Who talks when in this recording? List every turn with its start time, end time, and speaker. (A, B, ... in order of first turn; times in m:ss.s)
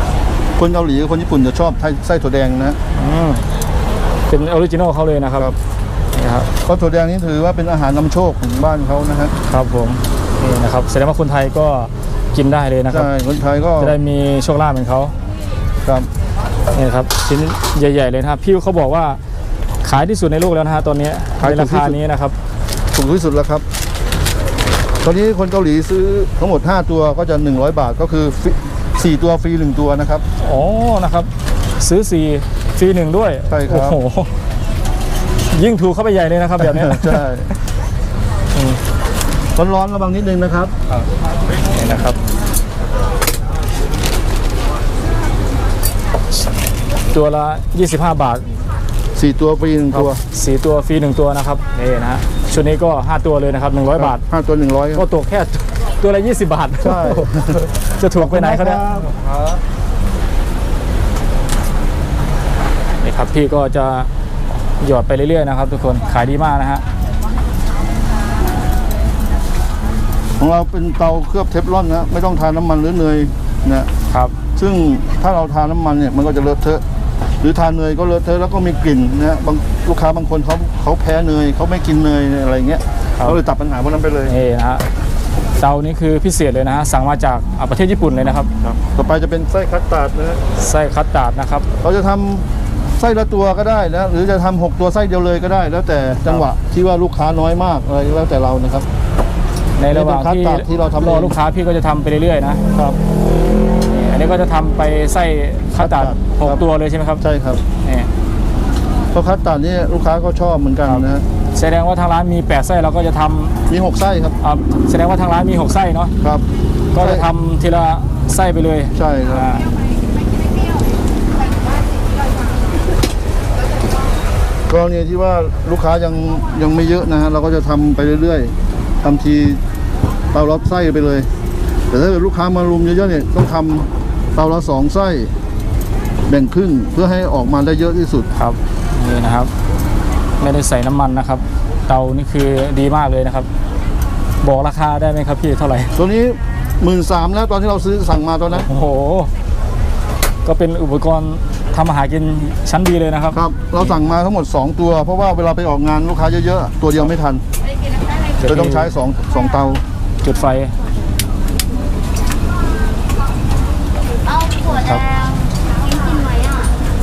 0:00.6-0:02.8 A
0:02.9-0:03.4 B
0:04.3-0:05.5 B
0:06.1-0:06.5 B
0:06.6-0:09.3 A
0:09.5-0:13.1 B
0:12.9-0:14.0 A
0:13.8-0:15.1 B
0:16.7-0:19.2 B
0:19.8-0:22.3 B
0:21.4-0:22.0 A
0:22.9-0:23.6 A
0:25.0-0:30.2 A
0:30.4-0:34.3 B
0:33.5-0:34.0 A
0:35.5-0:37.3 B
0:36.7-0:37.5 A
0:38.5-0:38.8 B
0:39.5-0:40.7 A
0:41.6-0:42.2 B
0:47.1-0:48.5 B
0:49.1-0:50.2 A
0:49.9-0:54.2 B
0:54.0-0:55.0 A
0:54.9-0:59.0 B
0:56.8-0:59.6 A
1:03.0-1:04.1 B
1:04.8-1:06.8 B
1:10.4-1:13.9 A
1:14.6-1:16.8 A
1:17.4-1:24.3 A
1:24.2-1:24.8 B
1:25.6-1:28.5 B
1:28.6-1:30.4 A
1:30.6-1:31.6 B
1:31.8-1:32.4 A
1:33.0-1:38.8 A
1:39.8-1:42.6 B
1:39.9-1:41.3 A
1:43.9-1:47.2 B
1:45.8-1:46.6 A
1:47.2-1:47.6 A
1:47.8-1:48.1 B
1:49.1-1:51.2 A
1:50.8-1:53.6 B
1:53.7-1:54.4 A
1:54.4-1:56.1 B
1:56.9-1:59.7 B
1:57.0-1:57.2 A
1:58.9-1:59.5 A
2:04.7-2:09.6 A
2:10.3-2:11.3 A
2:11.9-2:15.3 A
2:16.3-2:18.3 A
2:18.4-2:19.5 B
2:20.4-2:23.5 B
2:24.4-2:25.9 B
2:25.9-2:28.7 A
2:28.5-2:29.3 B
2:30.4-2:33.9 B
2:33.3-2:37.4 A
2:38.4-2:39.0 B
2:38.4-2:39.8 A
2:40.2-2:40.8 B
2:44.2-2:46.7 C
2:44.7-2:45.0 B